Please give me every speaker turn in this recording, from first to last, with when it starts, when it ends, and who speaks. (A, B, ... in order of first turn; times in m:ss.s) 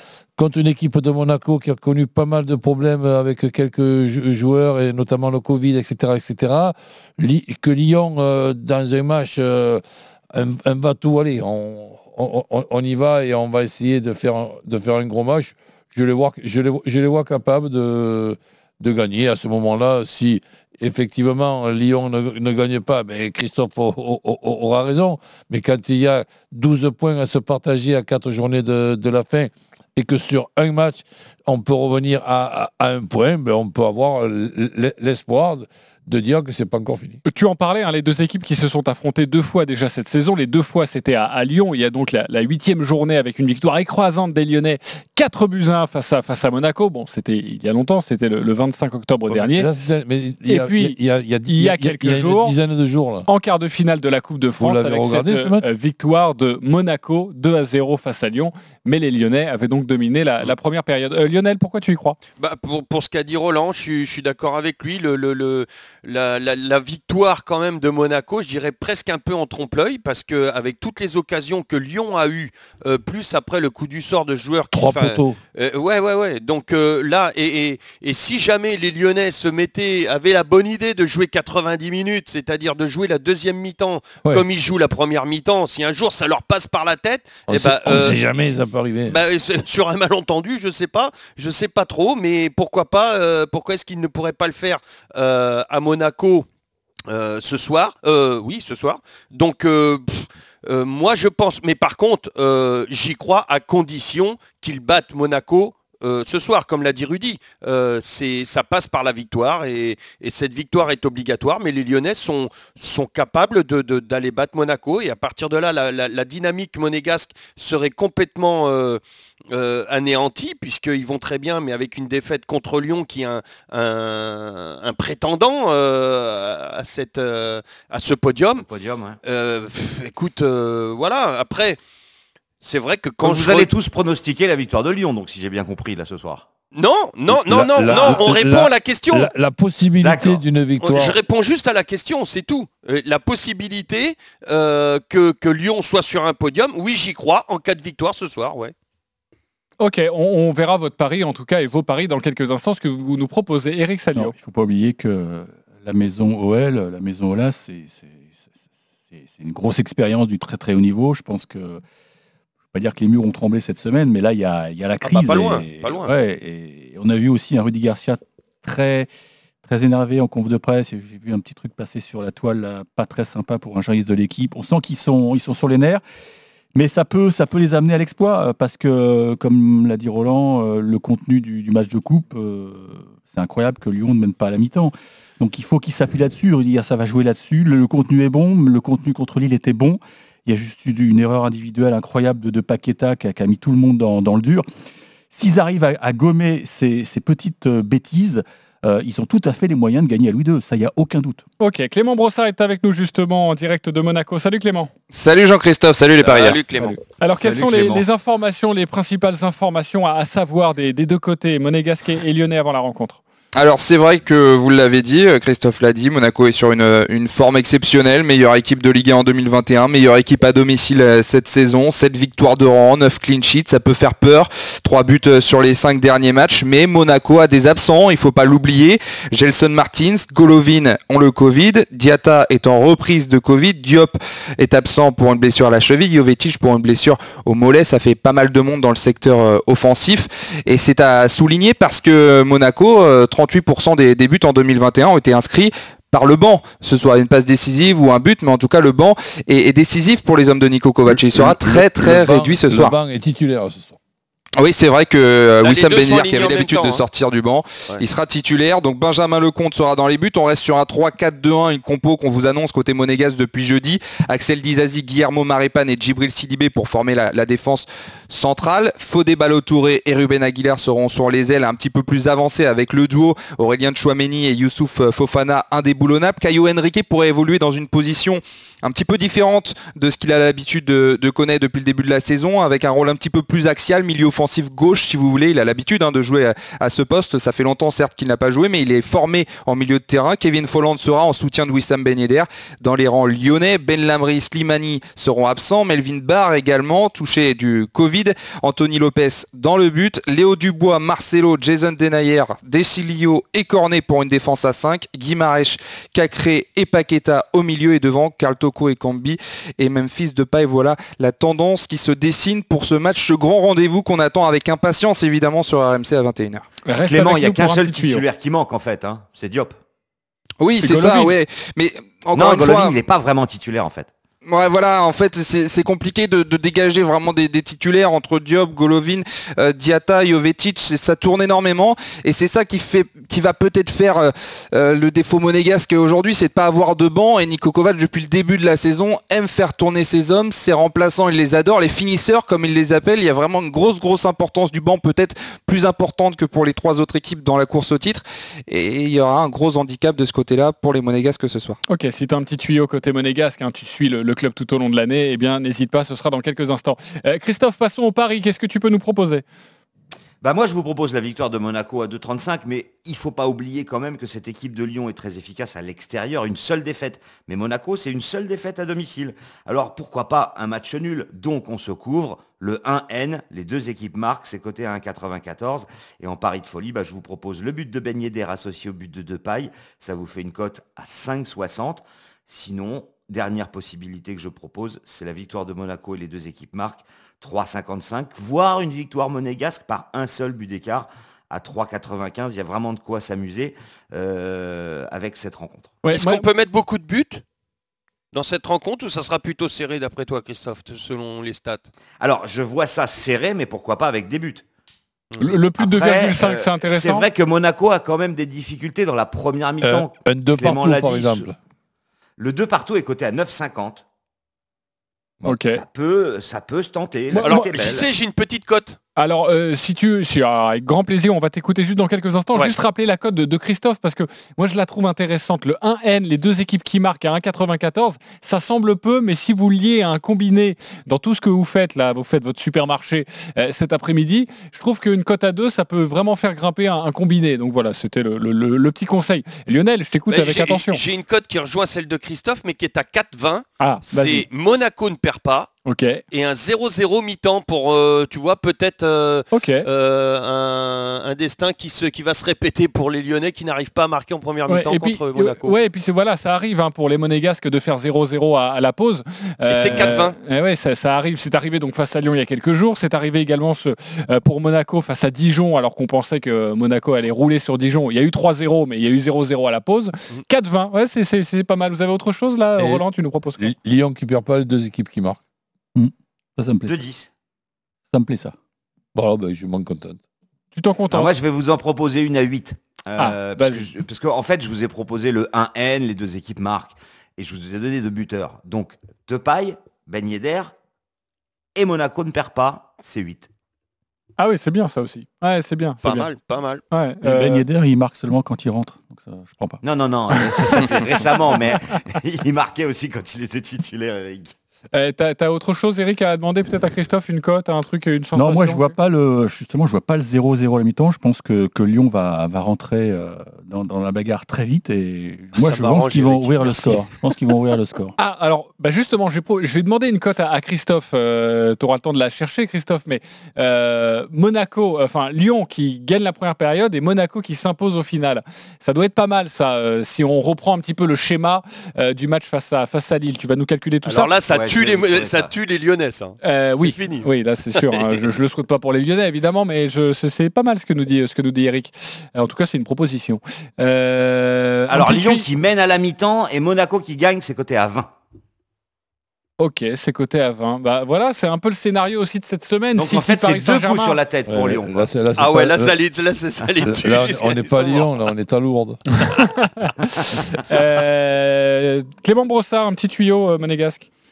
0:00.4-0:37.2 A
0:37.2-0:49.7 B
0:49.3-0:53.3 A
0:50.5-0:52.6 B
0:53.3-1:02.2 B
0:54.6-0:55.6 A
1:02.4-1:28.4 C
1:14.7-1:15.4 A
1:27.5-1:29.2 A
1:29.1-1:36.5 C
1:37.1-2:08.6 C
2:08.6-2:09.2 D
2:09.2-2:11.8 C
2:12.6-2:13.7 C
2:13.2-2:16.5 D
2:16.7-2:19.3 C
2:17.3-2:21.2 A
2:17.8-2:18.2 D
2:20.0-2:20.4 D
2:20.8-2:28.7 C
2:29.8-2:34.3 B
2:34.1-2:38.4 E
2:39.1-2:41.8 E
2:42.7-2:49.1 E
2:45.0-2:46.1 C
2:49.6-2:56.0 E
2:56.7-3:14.6 E
3:15.3-3:21.4 E
3:21.6-3:24.9 B
3:25.1-3:28.0 F
3:26.2-3:27.0 C
3:27.2-3:33.2 B
3:33.6-4:13.0 F
4:11.1-4:14.0 A
4:14.6-5:16.7 F
4:15.6-4:17.0 C
5:16.9-5:18.2 B
5:17.1-5:19.8 D
5:20.6-5:23.0 F
5:20.8-5:21.4 B
5:22.4-5:24.1 D
5:24.5-5:51.8 F
5:51.9-5:59.4 B
6:00.4-6:36.0 D
6:36.0-6:36.4 B
6:36.1-6:37.4 C
6:38.3-6:41.9 C
6:42.2-6:44.6 D
6:45.4-6:47.3 B
6:45.8-6:51.5 D
6:49.8-6:51.6 A
6:52.4-6:54.0 D
6:55.4-6:55.8 B
6:55.6-6:58.1 D
6:57.3-6:57.7 B
6:57.4-6:59.0 C
6:59.2-7:21.0 B
7:20.3-7:25.7 C
7:23.8-7:24.5 B
7:25.9-7:26.2 B
7:26.3-7:35.8 C
7:29.5-7:29.8 B
7:34.7-7:53.7 B
7:39.7-7:40.4 C
7:52.8-7:53.0 A
7:53.6-7:55.4 A
7:56.0-7:57.0 E
7:56.9-7:57.3 D
7:58.1-7:58.5 E
7:59.2-8:00.2 A
8:00.8-8:01.3 B
8:01.1-8:10.7 D
8:03.2-8:03.9 B
8:11.8-8:13.5 D
8:14.4-8:16.3 B
8:16.0-8:16.8 C
8:16.9-8:17.7 B
8:17.2-8:19.8 E
8:19.8-8:24.5 D
8:24.9-8:28.9 B
8:28.4-8:38.2 E
8:35.5-8:37.1 C
8:38.2-8:54.3 B
8:54.0-8:58.1 C
8:54.5-8:55.5 D
8:56.4-9:05.4 B
9:04.9-9:08.1 D
9:09.6-9:14.2 B
9:13.0-9:15.1 D
9:14.5-9:16.0 A
9:15.4-9:18.3 C
9:16.8-9:19.0 A
9:19.2-9:20.1 B
9:20.7-9:24.1 B